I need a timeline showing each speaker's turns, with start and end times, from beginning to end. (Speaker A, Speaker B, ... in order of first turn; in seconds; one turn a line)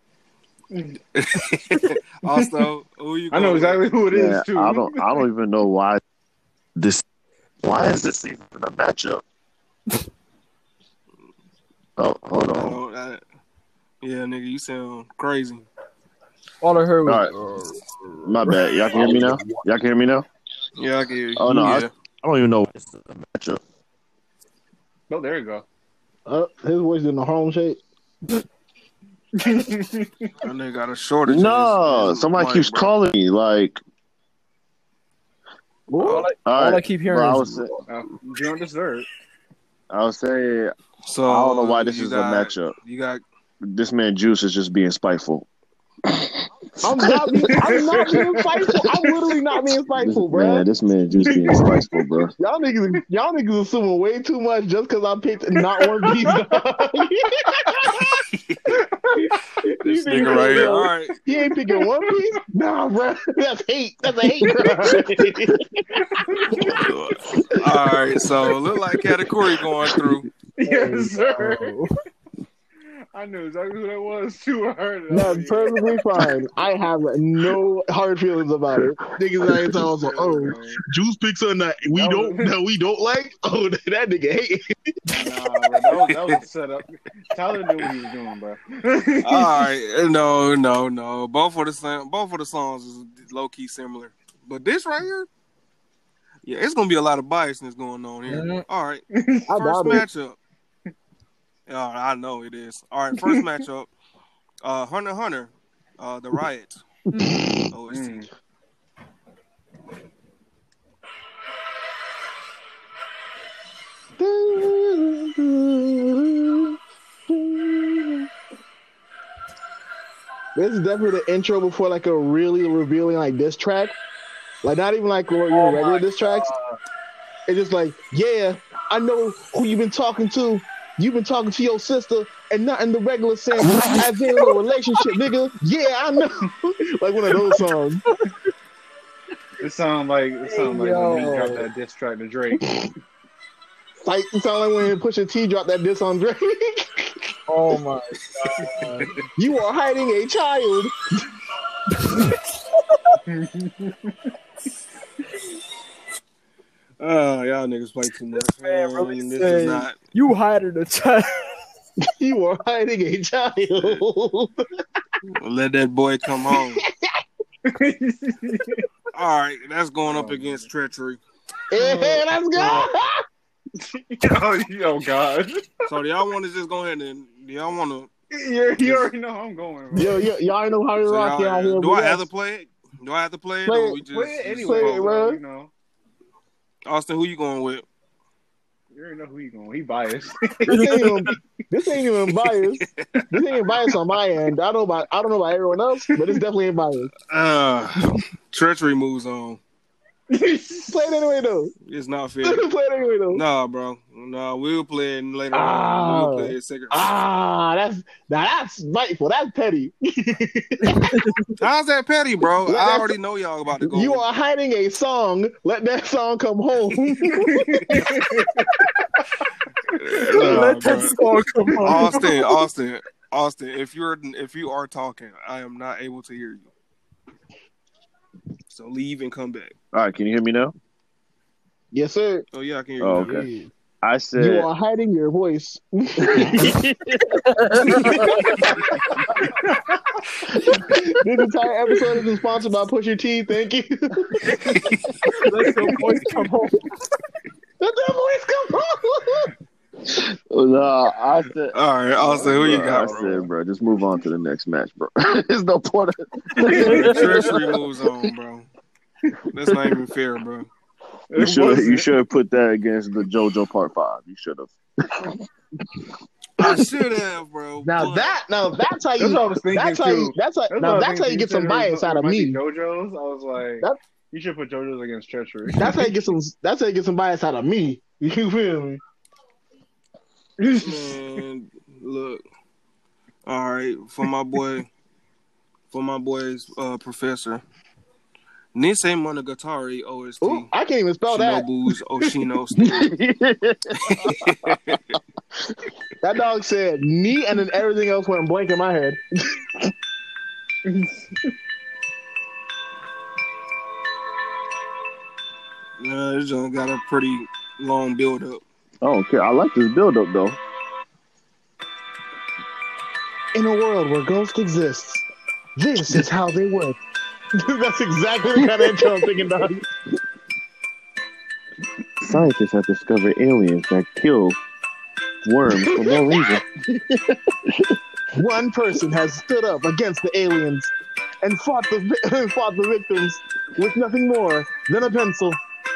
Speaker A: 0.7-1.0
Speaker B: 1.1-3.9
Speaker A: 3.3-5.2
Speaker C: 4.1-6.0
Speaker C: 6.8-7.0
Speaker C: 7.6-9.2
Speaker C: 12.0-12.8
Speaker B: 12.6-13.2
Speaker B: 14.0-15.7
Speaker D: 16.6-19.6
Speaker C: 17.0-17.3
Speaker C: 18.2-20.2
Speaker B: 20.8-21.9
Speaker C: 21.4-23.6
Speaker A: 25.1-25.6
Speaker E: 26.2-27.8
Speaker A: 29.4-30.3
Speaker B: 30.4-32.9
Speaker C: 31.2-33.8
Speaker E: 35.9-36.3
Speaker D: 36.0-37.8
Speaker B: 36.0-36.3
Speaker C: 36.5-37.8
Speaker A: 37.9-39.1
Speaker C: 39.9-40.7
Speaker B: 41.1-43.2
Speaker C: 41.2-42.8
Speaker C: 43.6-45.5
Speaker C: 46.1-47.7
Speaker E: 46.8-50.6
Speaker A: 47.5-48.5
Speaker C: 50.0-52.3
Speaker A: 51.2-51.8
Speaker E: 52.4-58.2
Speaker A: 55.8-56.5
Speaker A: 58.7-59.4
Speaker E: 59.6-66.8
Speaker B: 59.8-61.1
Speaker A: 60.3-60.7
Speaker A: 61.3-62.3
Speaker A: 66.0-66.8
Speaker B: 66.6-70.3
Speaker A: 70.6-71.8
Speaker D: 70.6-71.9
Speaker A: 73.1-76.0
Speaker E: 75.1-84.9
Speaker A: 79.9-80.8
Speaker A: 81.9-82.5
Speaker A: 85.1-89.7
Speaker B: 85.8-86.4
Speaker B: 89.2-95.3
Speaker B: 96.4-100.4
Speaker D: 98.3-98.6
Speaker A: 99.1-99.5
Speaker E: 99.5-100.1
Speaker B: 101.7-103.9
Speaker B: 104.6-106.8
Speaker E: 107.1-107.6
Speaker B: 107.7-108.2
Speaker A: 107.9-108.3
Speaker E: 114.2-116.8
Speaker E: 117.3-118.3
Speaker E: 120.5-124.0
Speaker E: 124.6-126.5
Speaker D: 125.5-126.8
Speaker E: 127.5-138.0
Speaker A: 139.6-142.7
Speaker D: 140.5-141.7
Speaker E: 144.0-147.2
Speaker D: 147.5-149.1
Speaker E: 149.3-151.0
Speaker D: 152.0-152.3
Speaker A: 153.3-154.3
Speaker B: 157.0-160.0
Speaker D: 158.6-161.5
Speaker E: 162.1-164.6
Speaker B: 165.3-166.8
Speaker E: 166.5-166.8
Speaker A: 167.7-168.8
Speaker B: 169.1-171.2
Speaker A: 170.0-170.7
Speaker E: 171.7-173.2
Speaker A: 171.8-172.2
Speaker A: 173.8-175.9
Speaker B: 175.8-178.1
Speaker A: 178.3-180.3
Speaker B: 178.8-179.1
Speaker E: 179.9-182.2
Speaker B: 181.0-185.0
Speaker E: 183.7-184.0
Speaker A: 184.0-185.7
Speaker E: 184.6-185.4
Speaker B: 186.8-187.8
Speaker A: 188.9-191.2
Speaker D: 190.7-191.1
Speaker E: 190.7-197.1
Speaker B: 192.8-193.2
Speaker B: 197.3-199.6
Speaker A: 200.3-201.0
Speaker E: 200.8-201.7
Speaker B: 201.8-202.7
Speaker E: 202.4-203.4
Speaker B: 203.3-207.1
Speaker E: 205.5-211.1
Speaker D: 210.8-211.5
Speaker B: 211.6-214.2
Speaker E: 212.7-213.2
Speaker E: 213.8-218.1
Speaker A: 217.3-218.7
Speaker B: 219.9-221.2
Speaker A: 220.3-220.7
Speaker D: 220.3-222.6
Speaker B: 221.8-226.7
Speaker A: 221.9-222.1
Speaker B: 228.7-229.7
Speaker C: 229.9-230.7
Speaker E: 231.9-232.4
Speaker B: 232.5-233.5
Speaker C: 233.0-233.5
Speaker D: 233.2-233.7
Speaker C: 234.0-234.7
Speaker E: 234.3-236.8
Speaker C: 236.2-238.1
Speaker D: 237.8-238.3
Speaker E: 238.1-239.5
Speaker A: 239.4-240.0
Speaker E: 240.6-244.8
Speaker D: 245.4-246.9
Speaker E: 247.8-249.5
Speaker C: 250.0-258.2
Speaker B: 251.7-253.5
Speaker A: 256.6-257.2
Speaker B: 256.7-258.7
Speaker D: 256.8-257.2
Speaker B: 259.5-260.7
Speaker A: 261.3-262.1
Speaker C: 261.4-265.3
Speaker B: 266.6-268.4
Speaker E: 266.6-266.8
Speaker E: 267.8-272.6
Speaker A: 269.2-276.2
Speaker E: 275.8-279.0
Speaker B: 280.8-282.4
Speaker B: 283.5-284.9
Speaker B: 285.9-287.6
Speaker B: 288.7-290.7
Speaker E: 290.4-291.6
Speaker B: 291.3-293.1
Speaker C: 292.8-294.8
Speaker B: 294.1-295.2
Speaker E: 296.2-299.2
Speaker A: 300.9-301.5
Speaker B: 306.0-308.6
Speaker C: 309.0-310.6
Speaker E: 313.5-315.2
Speaker E: 315.8-317.0
Speaker E: 317.6-319.8
Speaker C: 322.2-324.6
Speaker C: 325.4-326.6
Speaker E: 328.3-335.6